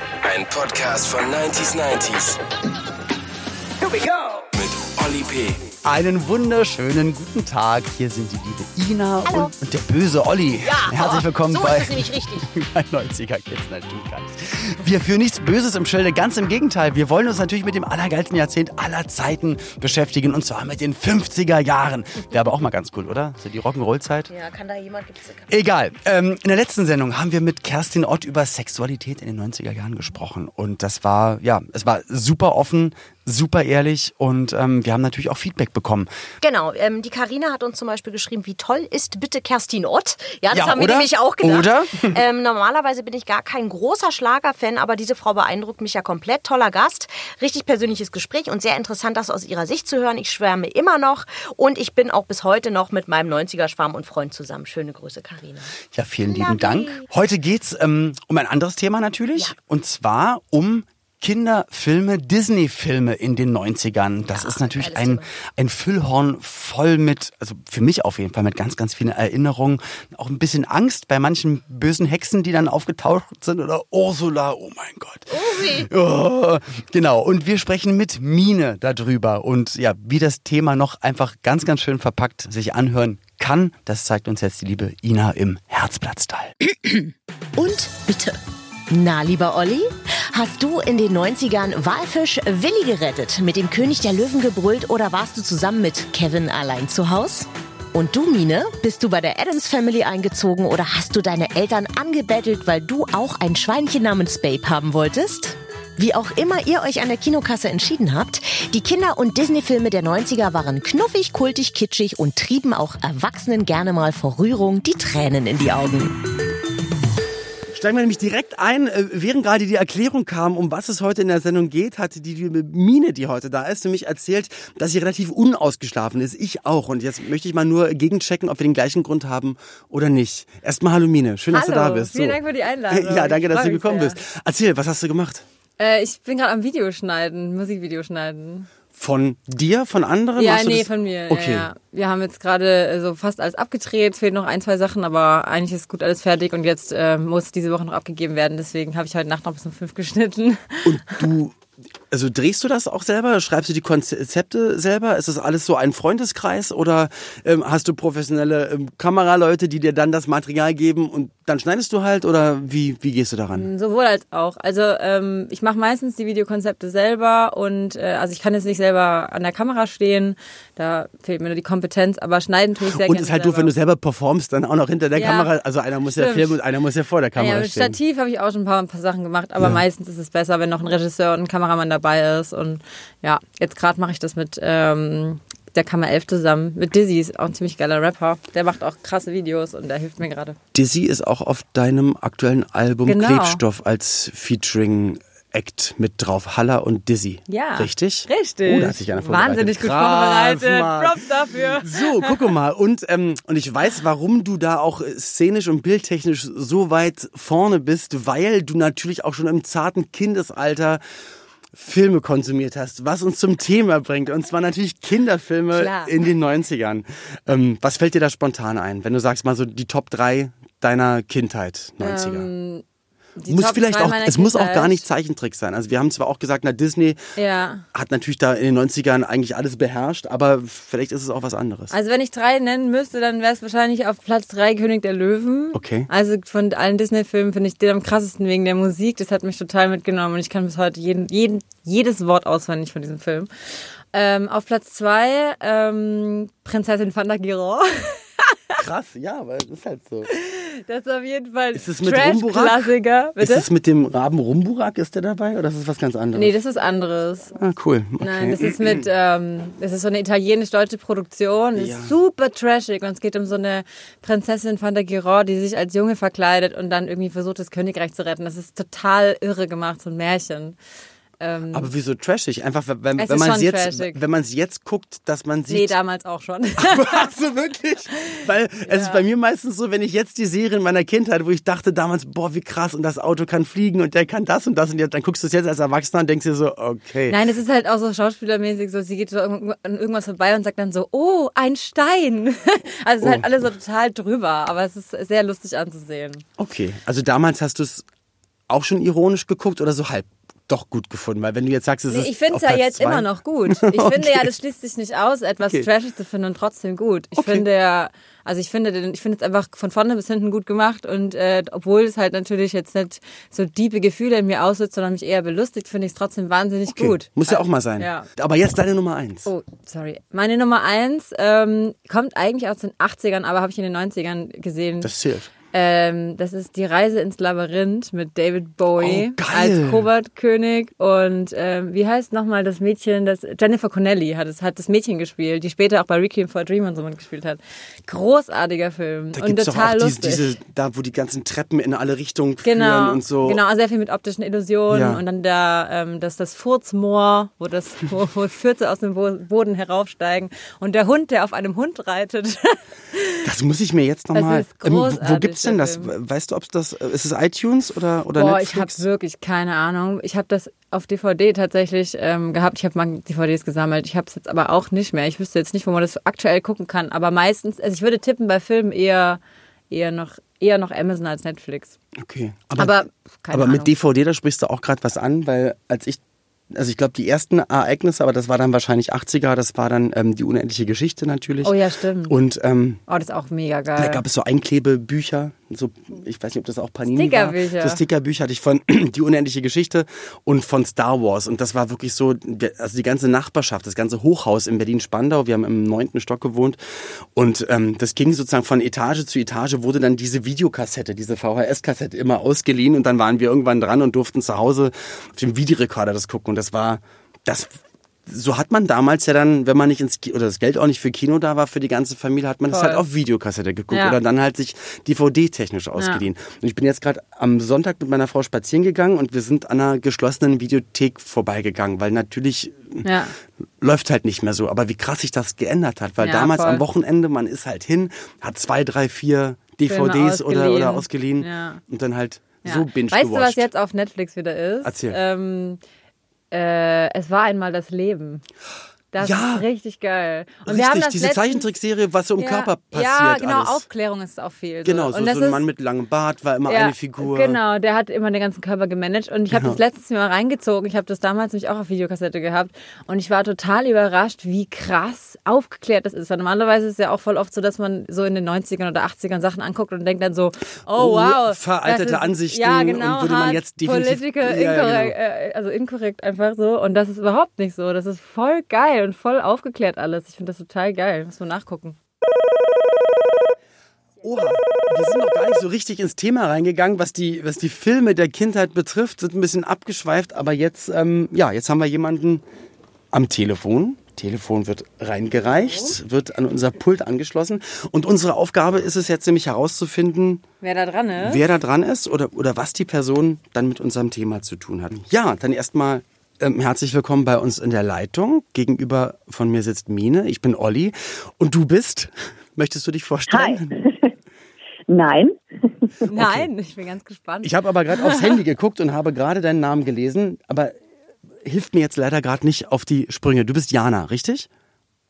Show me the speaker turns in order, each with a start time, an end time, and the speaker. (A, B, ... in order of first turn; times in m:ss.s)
0:00.2-0:02.4 A
0:03.8-0:04.3 B
0:04.5-0:05.7 A
0:05.8-0:24.3 C
0:09.2-0:09.5 B
0:10.6-0:12.5 B
0:24.3-0:25.6 B
0:25.5-0:36.1 C
0:36.4-0:57.1 B
0:40.5-0:42.2 C
0:55.9-1:26.5 C
1:04.3-1:05.2 B
1:15.4-1:15.9 B
1:26.7-1:28.4 B
1:28.9-1:56.2 B
1:57.7-2:12.4 C
2:11.5-2:14.2 D
2:12.9-2:15.4 C
2:15.8-2:18.7 D
2:18.9-2:21.7 C
2:20.4-2:31.2 D
2:30.8-2:43.7 C
2:43.5-2:53.7 D
2:52.9-2:58.0 C
2:55.2-2:55.5 D
2:56.1-2:56.6 D
2:57.4-3:10.6 D
3:10.7-3:31.0 C
3:13.1-3:13.6 D
3:17.5-3:22.3 D
3:31.7-3:42.5 C
3:35.7-3:36.1 D
3:42.0-3:42.8 D
3:43.4-3:45.0 D
3:43.5-3:47.2 C
3:47.4-3:47.8 D
3:47.9-3:51.9 C
3:51.9-4:08.7 D
3:55.7-3:56.1 C
4:08.8-4:10.3 C
4:10.3-4:13.7 D
4:11.7-4:16.6 C
4:16.4-4:17.5 D
4:17.6-4:19.1 C
4:18.2-4:30.8 D
4:21.8-4:22.1 C
4:31.4-4:31.9 D
4:31.7-4:36.0 C
4:33.2-4:34.2 D
4:35.7-4:37.3 D
4:36.8-4:47.4 C
4:38.2-4:39.2 D
4:47.3-4:56.4 D
4:56.6-4:58.1 C
4:58.7-5:04.5 C
5:02.1-5:18.3 D
5:05.6-5:05.9 C
5:07.4-5:07.6 C
5:16.9-5:19.5 C
5:19.5-5:25.1 D
5:25.0-5:25.5 C
5:25.7-5:40.5 D
5:29.0-5:30.1 C
5:39.4-5:43.6 C
5:42.6-5:53.5 D
5:44.9-5:45.2 C
5:53.4-5:59.0 C
5:54.3-5:56.1 D
5:58.4-6:12.0 D
6:12.2-6:16.2 C
6:12.8-6:13.9 D
6:16.7-6:23.0 C
6:21.6-6:22.4 D
6:23.1-6:24.2 D
6:24.0-6:47.7 C
6:27.1-6:28.0 D
6:48.3-7:03.1 C
6:52.7-6:53.1 D
6:53.9-6:54.2 D
6:56.0-6:56.2 D
7:03.0-7:03.4 D
7:03.8-7:13.7 C
7:06.2-7:06.8 D
7:09.9-7:11.8 D
7:12.6-7:15.8 D
7:14.8-7:15.2 C
7:16.5-7:18.4 D
7:19.1-7:21.6 D
7:19.2-7:19.7 C
7:20.7-7:23.9 C
7:22.4-7:25.6 D
7:24.8-7:27.6 C
7:26.7-7:52.0 D
7:29.5-7:29.8 C
7:41.0-7:45.2 C
7:54.2-8:02.4 C
8:03.1-8:10.4 C
8:10.6-8:11.4 D
8:11.2-8:23.8 C
8:23.3-8:24.1 E
8:24.9-8:26.1 E
8:26.1-8:28.3 D
8:26.1-8:26.5 C
8:27.4-8:30.8 C
8:31.4-8:34.5 C